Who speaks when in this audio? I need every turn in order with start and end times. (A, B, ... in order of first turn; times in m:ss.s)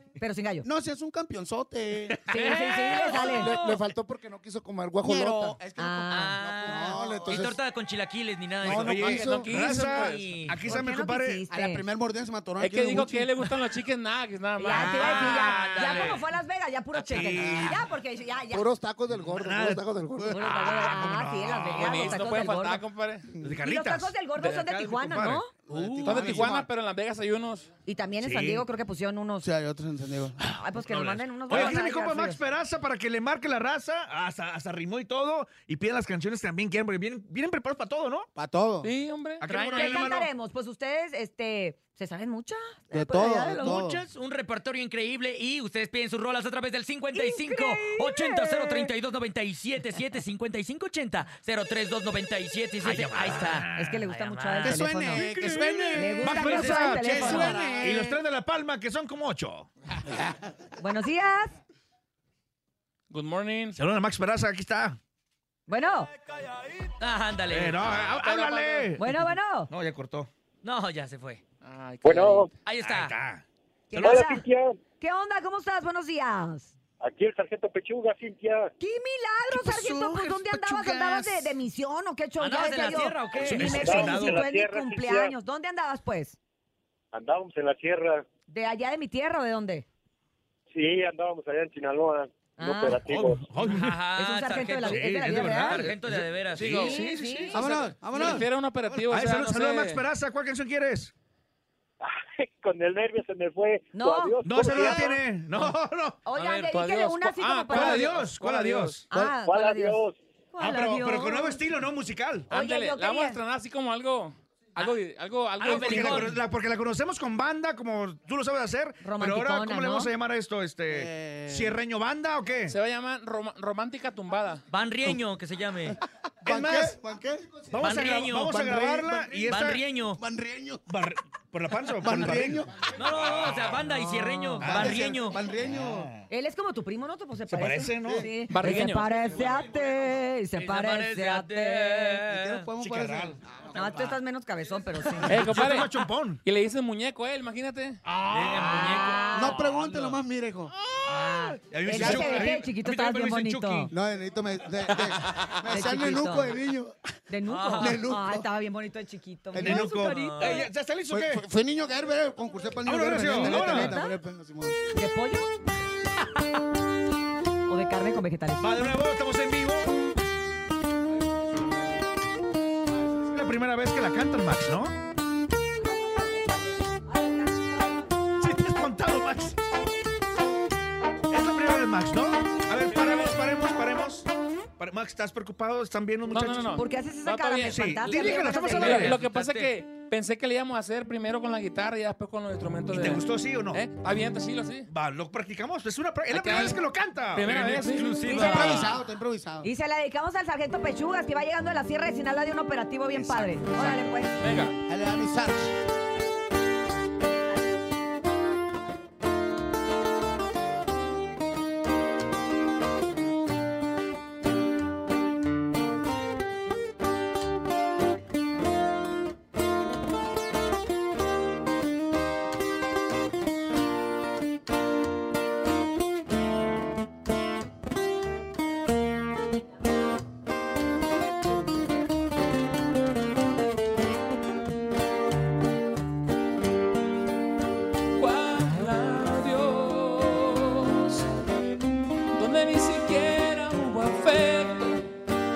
0:00.2-0:00.7 A
0:00.6-0:02.2 B
0:02.1-0:03.0 C
0:02.3-0:03.5 A
0:03.1-0:05.6 D
0:05.0-0:07.5 B
0:05.8-0:06.4 A
0:06.1-0:10.7 E
0:06.4-0:07.6 D
0:08.6-0:10.2 D
0:08.6-0:11.4 C
0:08.9-0:10.1 F
0:10.6-0:11.8 A
0:11.5-0:13.5 B
0:12.6-0:15.4 F
0:14.6-0:18.7 A
0:14.7-0:16.2 C
0:14.8-0:16.2 E
0:17.1-0:17.9 C
0:18.5-0:20.4 D
0:19.2-0:22.5 C
0:20.3-0:22.8 A
0:21.8-0:23.3 F
0:23.4-0:26.6 C
0:23.6-0:25.5 A
0:25.7-0:26.7 B
0:26.0-0:27.7 F
0:27.9-0:29.5 A
0:28.2-0:28.7 C
0:29.4-0:30.4 B
0:30.5-0:38.3 C
0:30.5-0:32.4 A
0:38.4-0:38.9 B
0:38.8-0:39.5 F
0:39.4-0:40.3 C
0:39.5-0:40.1 E
0:39.6-0:43.8 A
0:42.9-0:44.0 B
0:43.5-0:54.9 E
0:47.1-0:48.9 A
0:52.8-0:54.0 C
0:53.7-0:55.3 A
0:54.6-0:58.2 B
0:55.2-0:59.7 C
0:55.9-0:57.7 A
1:00.8-1:01.6 A
1:03.1-1:03.8 F
1:03.8-1:05.0 C
1:05.7-1:06.1 A
1:07.0-1:08.5 E
1:07.5-1:10.3 C
1:08.0-1:08.8 F
1:09.0-1:09.7 A
1:10.6-1:11.4 E
1:11.6-1:12.5 F
1:12.0-1:12.5 G
1:12.6-1:13.2 E
1:12.8-1:13.4 C
1:13.9-1:14.4 A
1:14.0-1:14.2 C
1:14.0-1:14.8 G
1:15.0-1:16.7 A
1:17.0-1:18.7 G
1:18.8-1:26.4 A
1:19.7-1:21.3 B
1:19.7-1:21.4 C
1:22.4-1:24.2 E
1:23.4-1:24.4 C
1:23.7-1:25.3 G
1:27.1-1:28.2 G
1:28.5-1:29.9 A
1:30.7-1:33.5 G
1:32.6-1:33.0 A
1:33.1-1:34.0 C
1:33.6-1:37.0 E
1:33.7-1:35.9 A
1:34.8-1:38.4 C
1:36.6-1:36.9 F
1:36.6-1:37.6 A
1:37.5-1:39.0 B
1:37.6-1:40.0 F
1:39.1-1:41.1 C
1:42.0-1:45.1 G
1:43.9-1:45.1 A
1:44.4-1:46.1 C
1:44.6-1:46.2 B
1:46.2-1:48.2 A
1:46.4-1:49.0 F
1:47.7-1:49.2 C
1:49.1-1:50.0 A
1:49.4-1:50.2 G
1:50.5-1:51.6 A
1:50.6-1:52.5 C
1:52.5-1:53.4 A
1:52.5-1:56.3 F
1:55.6-1:56.4 E
1:55.6-2:02.8 C
1:59.0-2:00.1 A
2:00.9-2:01.8 B
2:02.7-2:04.6 F
2:04.7-2:06.0 E
2:06.4-2:07.0 C
2:06.4-2:07.9 B
2:07.7-2:09.8 C
2:07.8-2:08.7 E
2:08.4-2:09.5 B
2:09.4-2:10.2 E
2:10.2-2:10.9 B
2:10.9-2:12.7 C
2:12.0-2:12.9 B
2:13.0-2:15.4 E
2:13.2-2:13.8 C
2:14.0-2:14.6 A
2:14.6-2:16.2 C
2:14.6-2:16.1 B
2:16.3-2:22.2 A
2:17.5-2:19.7 C
2:18.0-2:18.3 B
2:18.5-2:19.1 F
2:20.5-2:22.7 E
2:22.2-2:24.2 B
2:22.8-2:23.4 C
2:23.7-2:25.5 A
2:25.2-2:26.4 C
2:25.3-2:28.0 F
2:28.1-2:29.3 C
2:28.3-2:30.1 E
2:28.6-2:29.6 A
2:29.3-2:30.7 B
2:30.9-2:33.9 C
2:31.0-2:33.9 A
2:31.9-2:32.6 B
2:33.9-2:37.0 B
2:35.7-2:36.6 A
2:37.3-2:40.7 A
2:37.5-2:38.0 E
2:37.8-2:38.5 B
2:39.6-2:41.4 C
2:39.6-2:39.9 B
2:40.0-2:40.6 E
2:41.1-2:44.8 B
2:42.8-2:44.0 C
2:43.4-2:44.1 A
2:44.9-2:45.5 A
2:47.7-2:48.9 A
2:48.6-2:49.9 C
2:53.2-2:55.0 C
2:58.4-2:59.6 C
3:01.3-3:04.3 C
3:04.8-3:06.8 C
3:06.3-3:14.9 F
3:06.8-3:09.2 A
3:07.7-3:09.2 C
3:08.8-3:09.7 E
3:12.9-3:13.8 C
3:14.9-3:18.9 C
3:16.3-3:16.8 F
3:17.3-3:18.4 F
3:18.0-3:18.9 E
3:18.3-3:18.9 A
3:18.3-3:19.7 B
3:19.6-3:24.4 A
3:23.1-3:24.1 C
3:24.4-3:24.8 F
3:24.9-3:25.7 B
3:58.2-4:01.3 F
4:02.3-4:05.1 F